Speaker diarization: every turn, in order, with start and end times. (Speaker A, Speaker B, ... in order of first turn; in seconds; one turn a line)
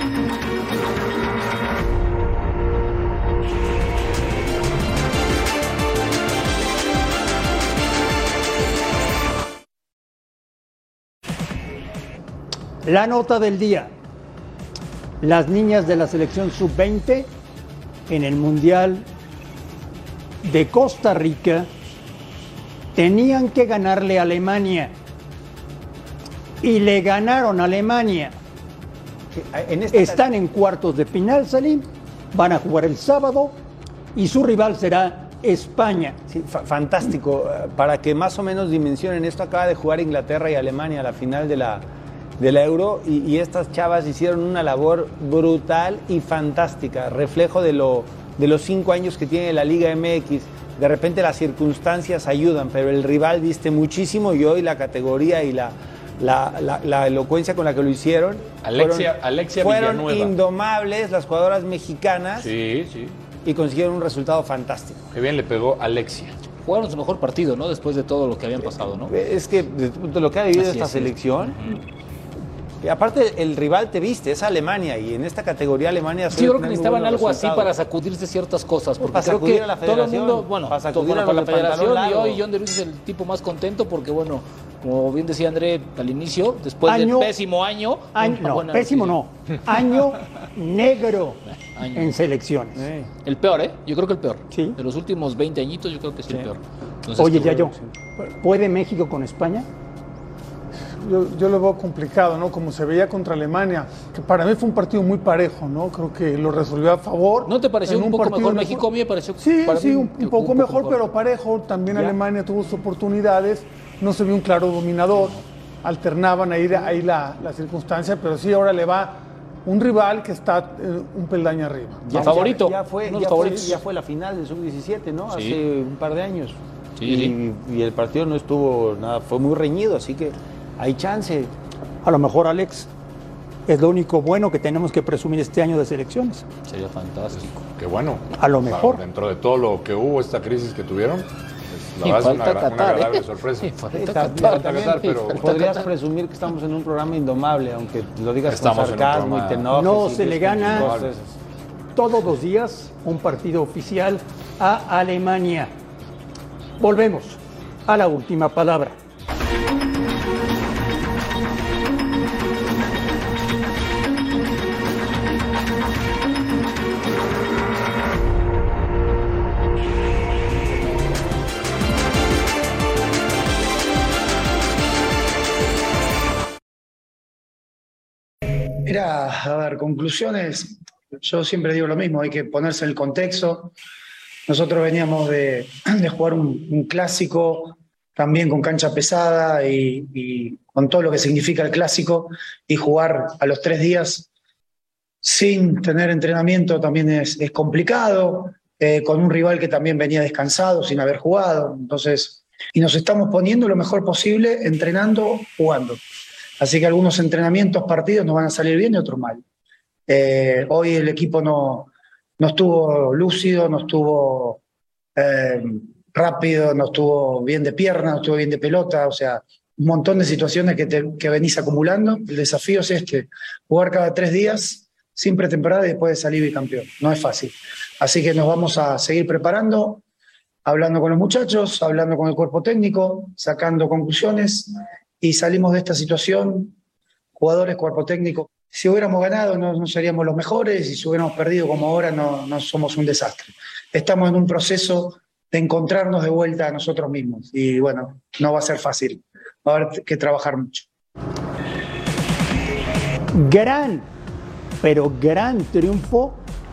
Speaker A: 12.8-13.9
Speaker A: 15.2-17.3
Speaker A: 18.1-19.1
Speaker A: 20.4-21.7
Speaker A: 22.9-24.9
Speaker A: 26.6-28.3
Speaker B: 29.3-30.2
Speaker A: 29.9-33.5
Speaker A: 34.1-36.2
Speaker B: 36.3-41.8
Speaker B: 42.4-62.5
Speaker C: 58.6-60.3
Speaker C: 62.4-63.1
Speaker B: 63.4-65.0
Speaker C: 65.1-66.3
Speaker D: 66.6-69.1
Speaker B: 68.9-71.6
Speaker D: 70.5-71.8
Speaker B: 72.8-77.7
Speaker D: 76.3-89.2
Speaker B: 79.0-82.4
Speaker A: 86.8-87.3
Speaker A: 88.1-91.4
Speaker D: 91.6-92.2
Speaker A: 91.9-92.8
Speaker B: 92.7-93.1
Speaker D: 93.2-97.7
Speaker A: 94.5-94.8
Speaker A: 97.2-99.7
Speaker E: 101.0-108.8
Speaker D: 107.4-111.0
Speaker E: 109.4-122.4
Speaker B: 122.0-131.5
Speaker D: 122.1-123.8
Speaker D: 125.3-125.6
Speaker D: 127.0-127.3
Speaker A: 132.0-132.9
Speaker A: 133.7-136.4
Speaker D: 136.7-137.6
Speaker C: 137.8-143.7
Speaker A: 138.3-139.0
Speaker D: 142.0-145.8
Speaker B: 143.9-151.4
Speaker C: 144.3-145.5
Speaker C: 148.4-149.7
Speaker A: 149.7-150.9
Speaker C: 150.6-151.1
Speaker A: 151.9-155.7
Speaker A: 156.8-159.0
Speaker F: 178.8-183.7
Speaker F: 184.5-194.3
Speaker F: 195.2-206.0
Speaker F: 206.6-209.4
Speaker F: 210.1-214.6
Speaker F: 215.2-230.0
Speaker F: 230.6-236.7
Speaker F: 237.3-250.8
Speaker A: 253.3-254.1
Speaker A: 254.8-256.4